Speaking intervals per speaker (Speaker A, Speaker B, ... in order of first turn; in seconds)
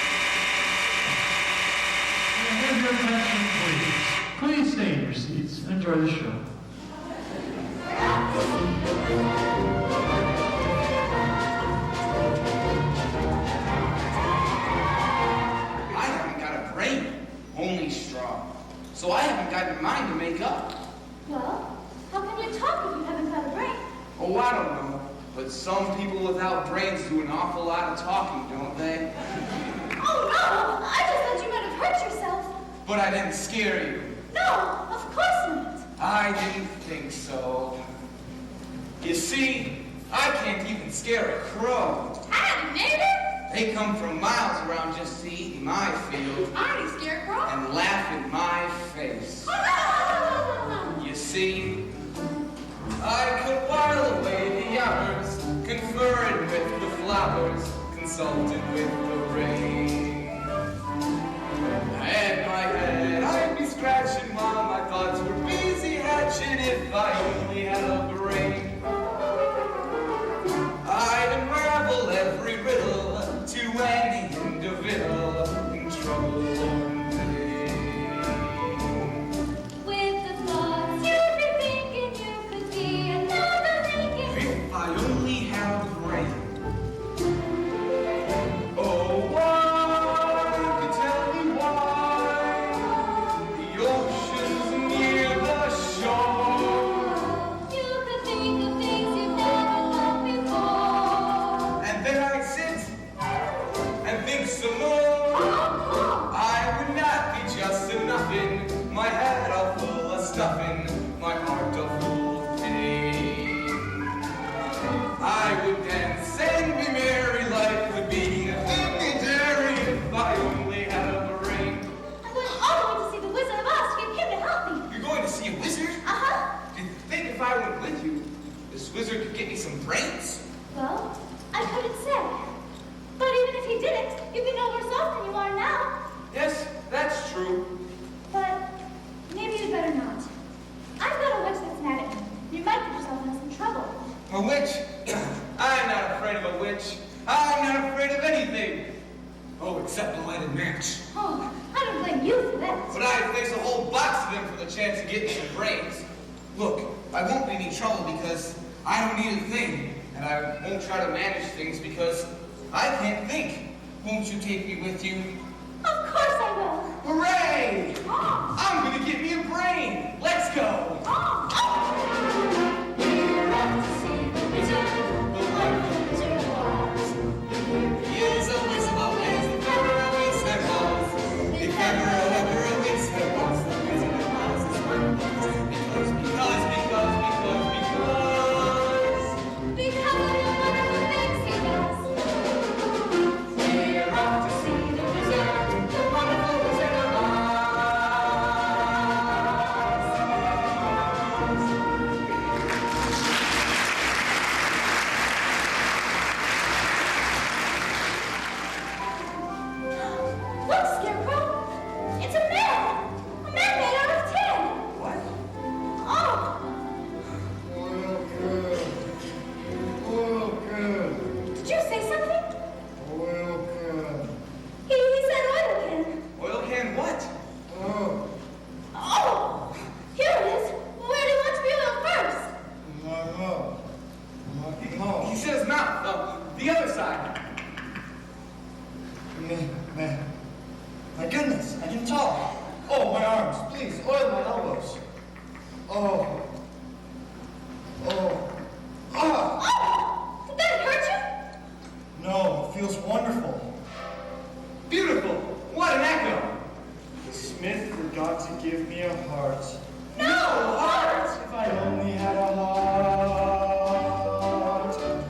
Speaker A: 2.3-6.4
Speaker B: 15.9-20.7, 24.2-29.1, 32.8-34.1, 36.0-37.8, 39.0-42.2, 43.5-46.5, 47.5-49.6, 51.0-51.9, 53.0-60.6, 61.9-68.8, 70.8-79.2, 84.2-86.5, 88.7-97.3, 101.8-103.0, 104.0-105.7, 106.3-114.1, 115.2-121.9, 124.9-126.0, 126.7-130.4, 136.3-137.7, 144.3-148.9, 149.6-151.0, 152.9-165.3, 167.0-168.0, 168.5-171.1, 174.7-176.3, 178.0-189.3, 193.6-199.9, 214.9-215.2, 226.4-227.3, 234.8-237.4, 254.9-256.6, 260.1-261.4
Speaker C: 21.2-23.8, 30.0-32.5, 34.3-35.9, 42.3-43.2, 46.5-47.6, 49.5-51.0, 79.8-84.5, 97.3-101.7, 105.3-106.3, 122.2-124.9, 126.0-126.5, 130.7-132.4, 133.2-135.9, 138.3-138.6, 139.3-140.3, 141.0-144.0, 151.1-153.0, 165.8-166.9, 168.0-168.5, 171.1-172.1, 173.0-177.1, 181.6-182.4, 189.7-192.3, 210.6-211.7, 212.2-214.8, 216.0-216.7, 221.5-222.5, 224.9-226.2, 228.9-232.5, 249.5-251.3, 260.1-261.3
Speaker D: 217.6-219.0, 220.0-221.3, 223.0-224.3, 227.7-228.2, 232.8-233.8, 234.5-235.3, 239.3-240.2, 241.2-245.0, 245.9-246.4, 248.0-248.5, 249.1-249.6, 252.1-253.7, 257.2-259.8, 261.3-264.9